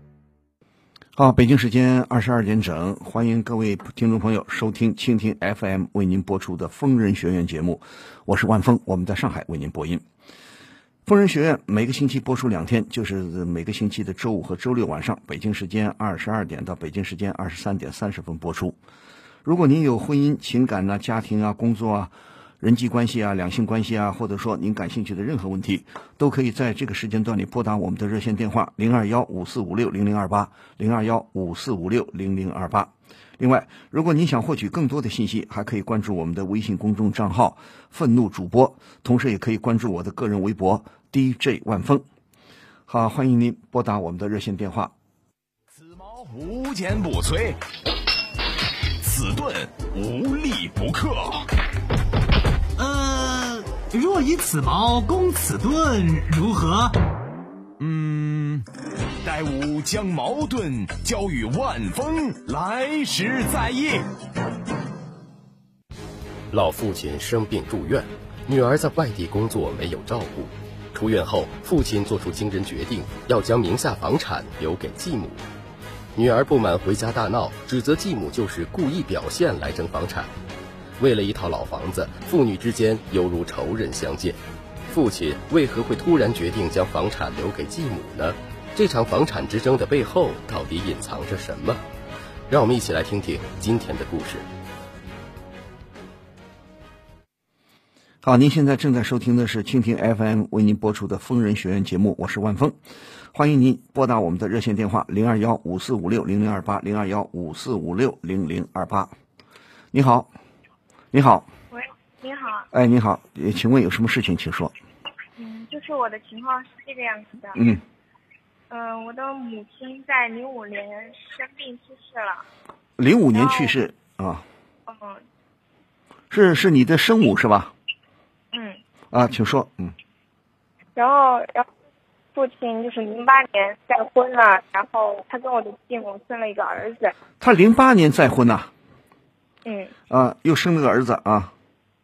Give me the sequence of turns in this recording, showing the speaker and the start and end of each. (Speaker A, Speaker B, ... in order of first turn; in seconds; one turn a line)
Speaker A: 1.1-10.0
Speaker A: 11.1-18.8
Speaker A: 19.4-42.0
Speaker A: 42.9-44.9
Speaker B: 45.7-47.6
Speaker B: 49.0-51.5
Speaker C: 52.8-57.0
Speaker B: 57.8-58.6
Speaker B: 59.2-64.0
Speaker D: 66.5-75.4
Speaker D: 76.1-80.3
Speaker D: 81.0-91.8
Speaker D: 92.5-94.5
Speaker A: 98.2-102.8
Speaker A: 103.3-109.1
Speaker A: 109.9-110.3
Speaker A: 111.1-111.5
Speaker E: 111.7-112.7
Speaker A: 112.7-114.7
Speaker E: 115.4-117.6
Speaker A: 117.5-117.8
Speaker E: 118.7-122.4
Speaker A: 123.0-124.4
Speaker E: 123.3-123.7
Speaker E: 124.9-125.2
Speaker A: 126.3-127.7
Speaker E: 128.5-128.8
Speaker A: 129.1-129.9
Speaker E: 130.9-131.7
Speaker E: 132.3-137.1
Speaker A: 137.4-138.7
Speaker E: 139.6-139.9
Speaker A: 140.1-141.5